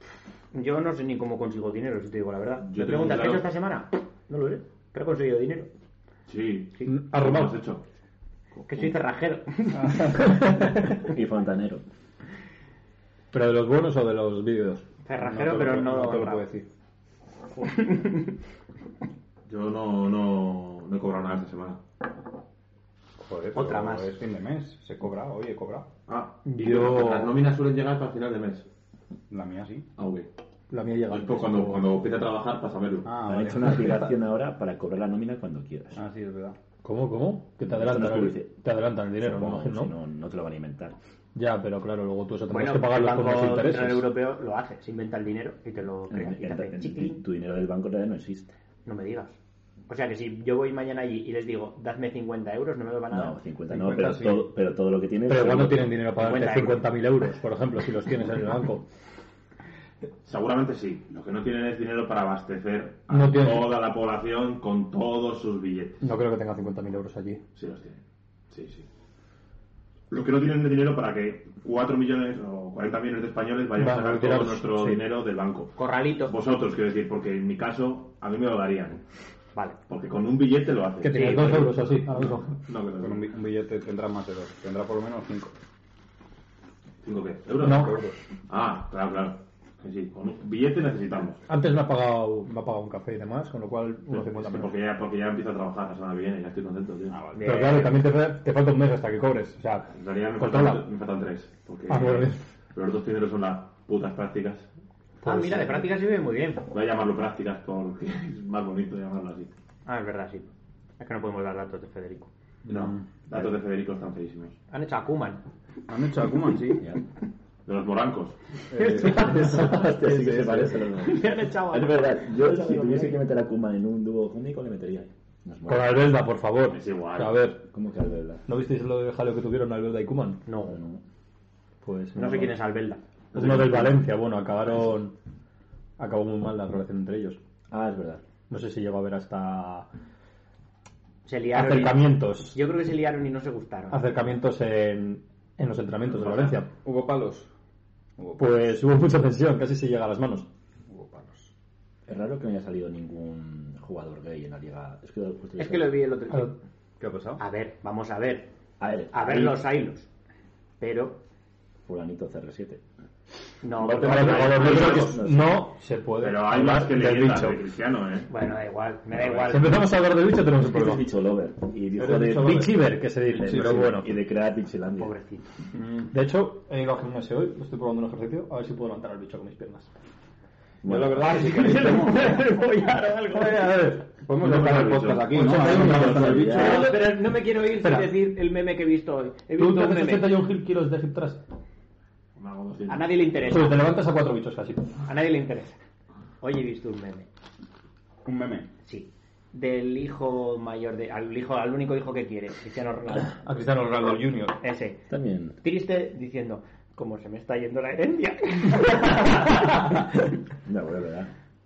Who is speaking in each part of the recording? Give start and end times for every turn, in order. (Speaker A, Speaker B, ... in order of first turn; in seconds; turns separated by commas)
Speaker A: 0.5-5.7, Speaker B: 2.6-3.5, Speaker B: 6.3-7.8, Speaker C: 6.9-7.5, Speaker B: 8.6-8.9, Speaker A: 8.7-10.4, Speaker D: 10.9-11.8, Speaker C: 13.3-14.9, Speaker A: 15.0-16.4, Speaker E: 15.2-16.6, Speaker A: 17.6-18.4, Speaker B: 19.5-21.8, Speaker E: 23.2-25.9, Speaker A: 23.5-24.1, Speaker B: 26.1-28.7, Speaker C: 26.5-27.4, Speaker E: 29.3-29.9, Speaker B: 30.0-30.3, Speaker C: 30.7-31.9, Speaker B: 31.1-33.1, Speaker E: 33.0-34.1, Speaker D: 33.2-36.0, Speaker E: 35.9-36.6, Speaker C: 36.8-39.9, Speaker D: 37.6-38.6, Speaker D: 39.2-41.0, Speaker C: 41.4-44.1, Speaker A: 42.5-47.2, Speaker D: 46.1-48.5, Speaker A: 48.9-49.4, Speaker A: 49.9-53.4, Speaker D: 53.1-56.0, Speaker E: 53.7-54.5, Speaker C: 55.3-58.9, Speaker A: 56.2-56.8, Speaker B: 60.2-66.0, Speaker C: 63.1-63.7, Speaker C: 66.0-67.4, Speaker B: 67.5-68.9, Speaker B: 70.1-79.0, Speaker C: 73.8-75.0, Speaker A: 75.8-76.3, Speaker B: 79.9-83.3, Speaker C: 81.0-82.6, Speaker A: 81.2-81.5, Speaker E: 83.0-85.6, Speaker B: 87.0-88.0, Speaker E: 87.6-88.2, Speaker C: 87.6-87.9, Speaker B: 88.5-91.4, Speaker C: 91.5-94.7, Speaker B: 94.1-97.3, Speaker E: 97.1-97.4, Speaker A: 97.3-98.0, Speaker C: 97.4-100.8, Speaker B: 99.9-104.7, Speaker C: 101.9-102.4, Speaker A: 105.2-106.7, Speaker C: 105.2-105.8, Speaker B: 106.7-109.5, Speaker A: 109.9-112.3, Speaker E: 112.7-113.0, Speaker B: 112.7-114.6, Speaker A: 114.7-115.4, Speaker E: 115.9-116.8, Speaker B: 117.7-118.4, Speaker E: 118.7-120.7, Speaker A: 118.7-119.7, Speaker D: 118.9-126.0, Speaker A: 120.9-123.2, Speaker C: 125.7-127.6, Speaker B: 126.7-127.5, Speaker D: 127.6-128.4, Speaker C: 128.4-130.5, Speaker A: 130.4-130.8, Speaker D: 130.7-131.0, Speaker C: 131.8-132.6, Speaker A: 132.1-133.0, Speaker B: 133.3-134.0, Speaker C: 133.3-135.1, Speaker C: 136.0-137.4, Speaker D: 137.7-138.2, Speaker C: 138.5-139.9, Speaker A: 141.2-144.1, Speaker C: 141.5-142.6, Speaker C: 143.9-146.7, Speaker B: 146.1-146.6, Speaker E: 146.8-147.5, Speaker E: 148.2-148.7, Speaker C: 148.4-150.5, Speaker E: 150.9-151.5, Speaker D: 152.1-156.0, Speaker A: 155.6-156.6, Speaker E: 157.0-157.4, Speaker A: 157.4-158.5, Speaker D: 158.8-159.6, Speaker A: 159.1-160.1, Speaker A: 160.8-161.2, Speaker D: 161.8-162.8, Speaker A: 163.6-165.1, Speaker B: 163.8-165.2, Speaker C: 163.8-167.6, Speaker D: 164.7-165.6, Speaker B: 166.2-168.3, Speaker A: 168.3-169.8, Speaker B: 169.1-169.6, Speaker C: 169.5-171.1, Speaker D: 170.6-175.1, Speaker C: 172.0-174.1, Speaker E: 173.4-173.9, Speaker A: 175.0-175.5, Speaker E: 175.7-176.1, Speaker C: 176.1-179.9, Speaker D: 180.8-181.6, Speaker E: 180.9-182.4, Speaker A: 181.2-183.9, Speaker C: 183.3-184.1, Speaker E: 184.2-186.9, Speaker B: 184.3-186.9, Speaker C: 185.3-186.8, Speaker D: 185.9-186.9, Speaker A: 186.4-190.4, Speaker C: 187.8-188.1, Speaker C: 189.6-191.4, Speaker B: 192.4-193.5, Speaker A: 192.9-194.0, Speaker C: 193.5-195.0, Speaker A: 195.1-195.8, Speaker A: 196.4-197.3, Speaker E: 198.2-198.7, Speaker A: 198.8-203.4, Speaker C: 203.4-204.5, Speaker E: 204.0-204.5, Speaker A: 204.6-205.1, Speaker D: 205.1-205.6, Speaker A: 205.6-210.1, Speaker D: 210.6-211.3